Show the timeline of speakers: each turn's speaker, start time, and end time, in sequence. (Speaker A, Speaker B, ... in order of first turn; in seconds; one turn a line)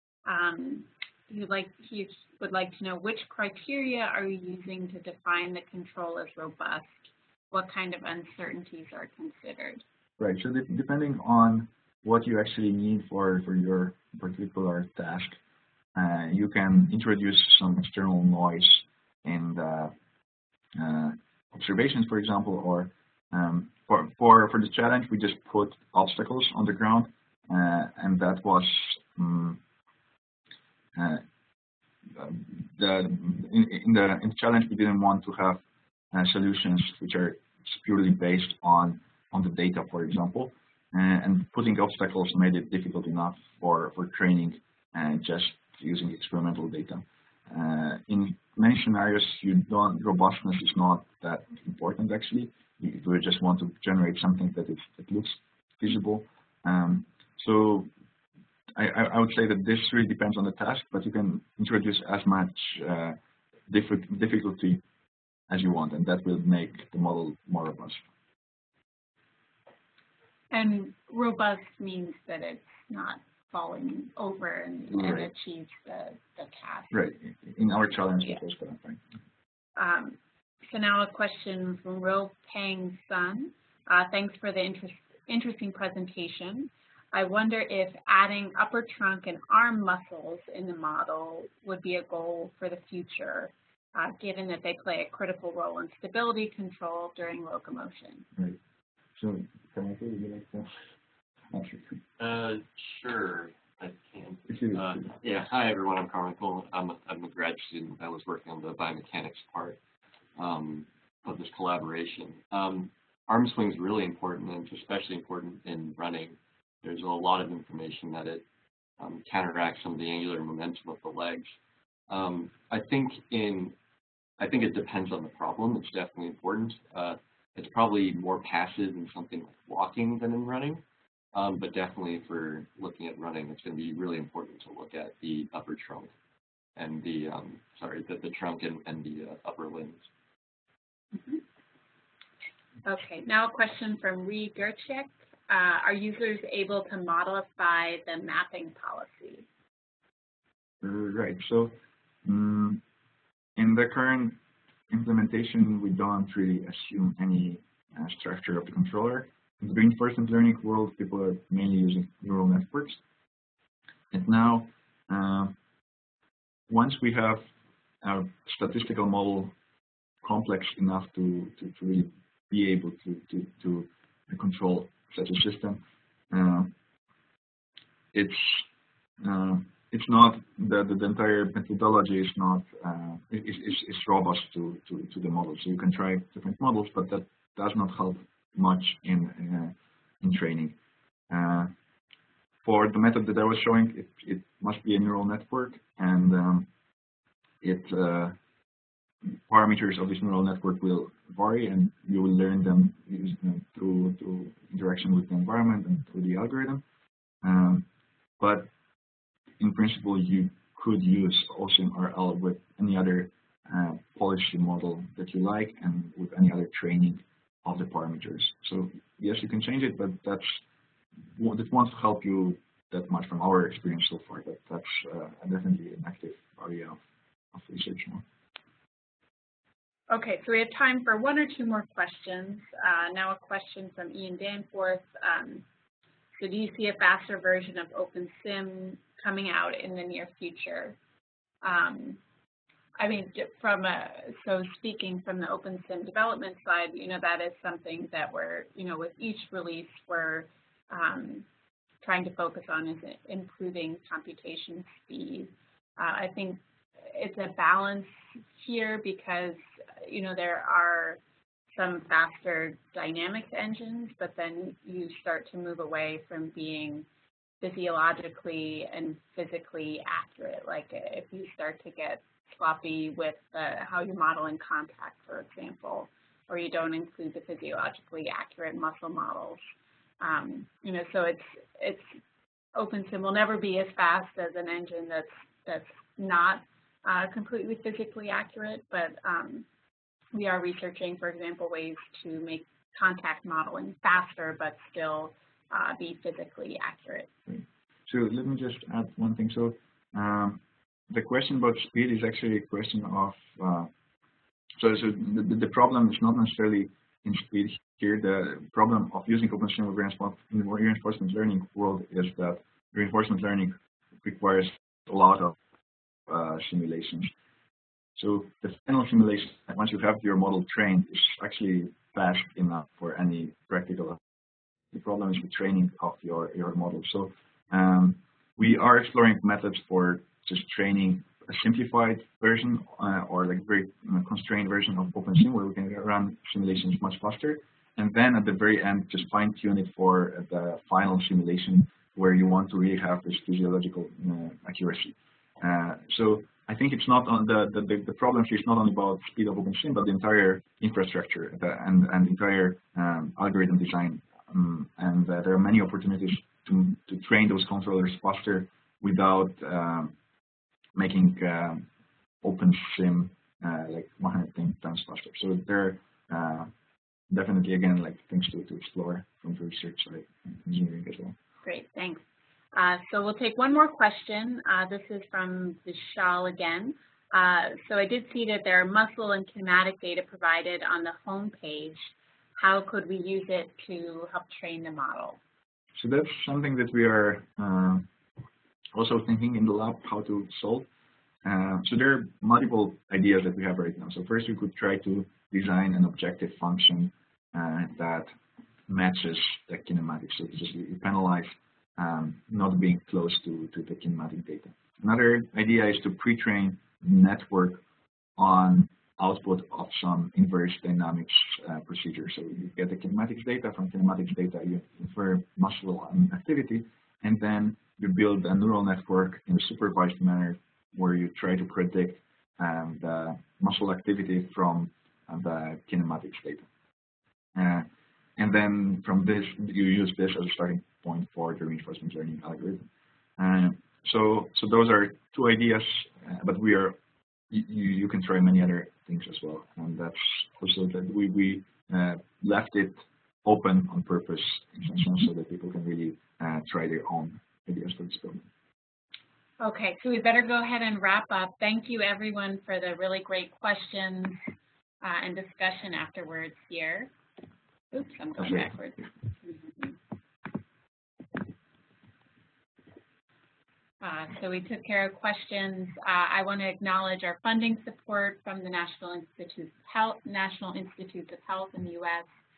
Speaker A: 0.3-9.8
Speaker B: 10.2-15.4
Speaker B: 16.0-19.9
Speaker B: 20.8-29.6
Speaker B: 30.9-31.2
Speaker B: 32.1-57.9
Speaker B: 58.8-63.2
Speaker B: 63.7-64.8
Speaker B: 65.5-68.0
Speaker A: 70.5-76.9
Speaker B: 74.9-75.3
Speaker B: 76.9-79.0
Speaker A: 79.8-98.3
Speaker B: 99.2-100.7
Speaker B: 101.5-102.0
Speaker C: 102.2-109.8
Speaker B: 104.5-105.0
Speaker C: 110.4-118.4
Speaker C: 119.0-121.5
Speaker C: 122.1-123.7
Speaker C: 124.4-130.8
Speaker C: 131.3-136.1
Speaker C: 136.8-140.1
Speaker A: 141.1-141.4
Speaker A: 142.8-149.5
Speaker B: 150.8-152.8
Speaker B: 153.6-154.4
Speaker B: 154.9-163.0
Speaker B: 164.1-165.6
Speaker B: 166.7-167.5
Speaker B: 168.0-169.5
Speaker B: 170.2-176.7
Speaker B: 178.1-178.7
Speaker B: 179.2-190.8
Speaker B: 191.3-191.7
Speaker B: 192.6-196.7
Speaker B: 197.6-198.4
Speaker B: 199.3-206.8
Speaker B: 207.4-207.9
Speaker B: 208.4-208.7
Speaker B: 209.6-220.6
Speaker B: 221.4-227.0
Speaker B: 227.5-228.2
Speaker A: 230.1-235.6
Speaker A: 236.4-241.0
Speaker A: 241.6-242.2
Speaker A: 243.0-251.5
Speaker A: 252.0-261.2
Speaker A: 261.7-267.1
Speaker A: 267.6-279.6
Speaker A: 280.2-282.2
Speaker A: 282.8-289.7
Speaker A: 290.3-297.3
Speaker B: 297.5-303.9
Speaker B: 304.8-315.6
Speaker B: 316.3-317.3
Speaker B: 318.1-324.2
Speaker B: 324.9-360.1
Speaker B: 360.9-361.9
Speaker B: 362.4-366.7
Speaker B: 367.3-371.4
Speaker A: 371.6-372.2
Speaker A: 372.8-385.4
Speaker B: 385.9-388.1
Speaker B: 388.9-390.9
Speaker B: 391.4-398.3
Speaker B: 398.9-407.8
Speaker B: 408.4-426.7
Speaker B: 427.6-427.9
Speaker B: 428.4-432.9
Speaker B: 433.4-437.0
Speaker B: 437.5-448.5
Speaker A: 449.6-454.4
Speaker A: 455.0-457.1
Speaker A: 457.9-460.0
Speaker B: 458.4-458.7
Speaker A: 464.0-472.3